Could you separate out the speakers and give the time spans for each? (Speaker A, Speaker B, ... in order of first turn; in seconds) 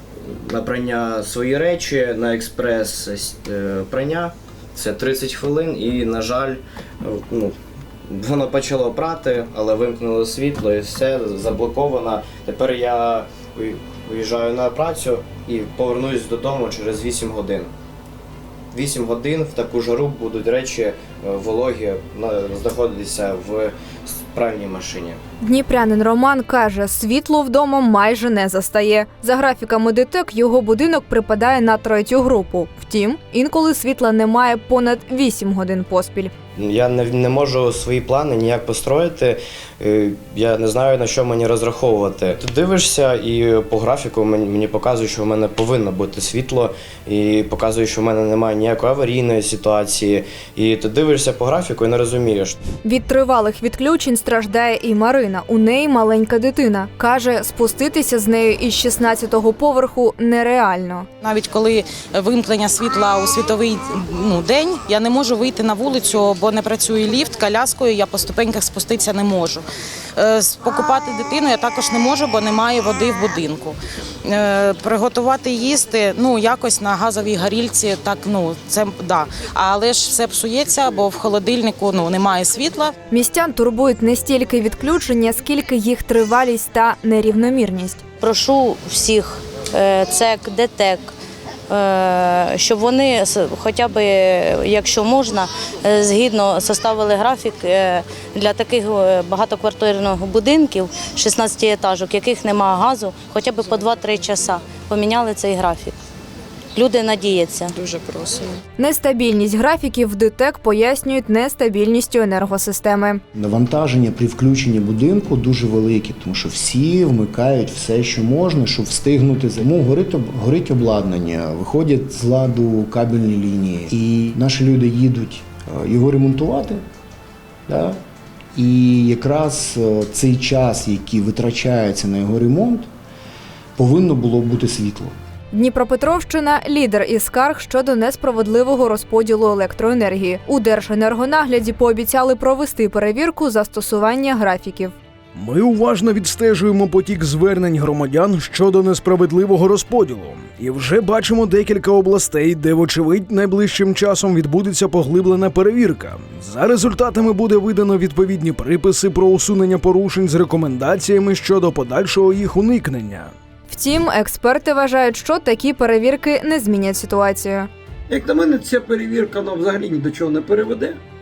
Speaker A: 0.2-7.6, 8.1-17.7, 18.7-25.2, 36.6-52.6
Speaker B: 25.4-36.3, 52.8-61.1, 83.1-88.0, 108.8-113.2, 135.5-144.9, 163.7-167.7
Speaker C: 61.2-69.6, 70.2-82.9, 107.9-108.5
Speaker D: 88.2-91.1, 91.7-106.0, 106.8-107.9
Speaker E: 113.3-126.8, 127.7-128.0, 128.6-132.9, 133.8-135.1
Speaker F: 145.4-163.3
Speaker G: 168.1-171.0